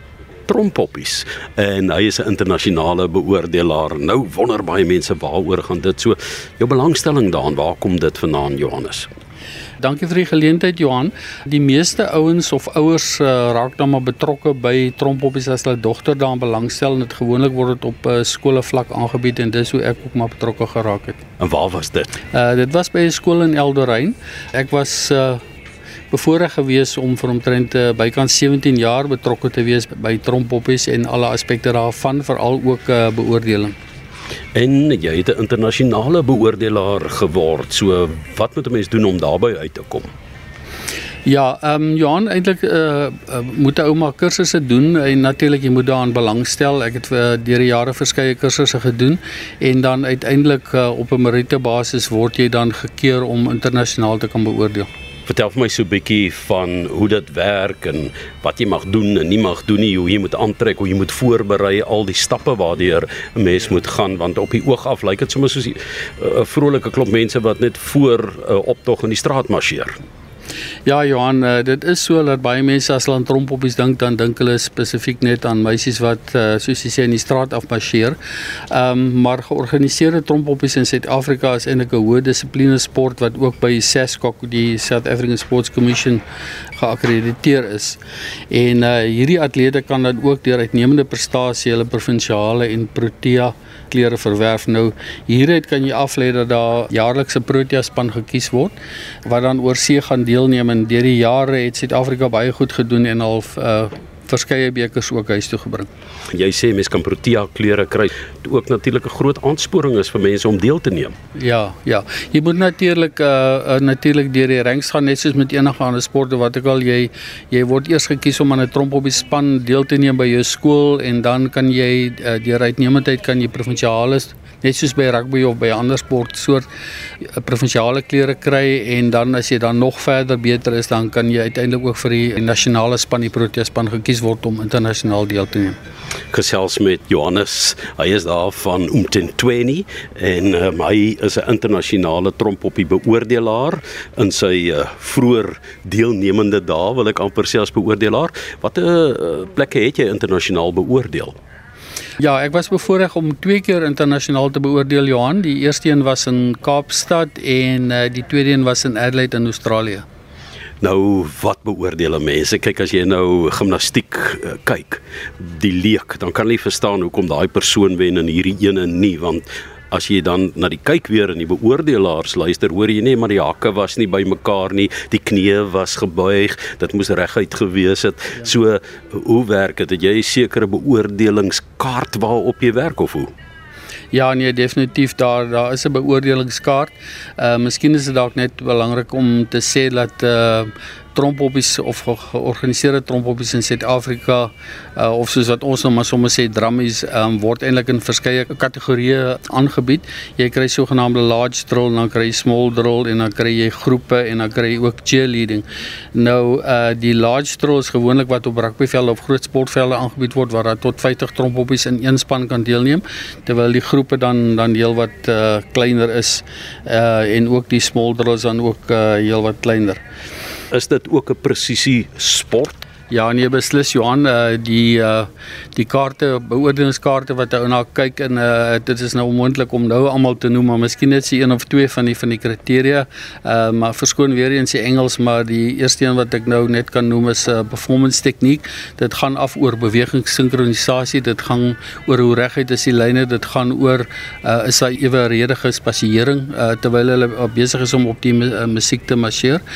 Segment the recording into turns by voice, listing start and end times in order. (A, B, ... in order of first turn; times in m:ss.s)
0:00.5-0:09.1 A
0:09.8-0:21.2 B
0:21.4-0:22.2 A
0:22.3-0:25.4 B
0:26.1-0:33.7 B
0:34.5-0:40.1 A
0:41.2-0:54.9 B
0:55.3-1:09.9 A
1:10.8-1:18.2 B
1:18.7-1:26.2 B
1:26.8-1:28.0 B
1:28.5-1:45.9 B
1:46.3-1:51.1 A
1:51.3-2:06.6 B
2:07.3-2:15.8 B
2:16.3-2:31.3 A
2:32.2-2:40.0 B
2:40.8-3:03.3 A
3:04.1-3:40.0 B
3:40.7-3:42.8 A
3:43.1-4:09.6 B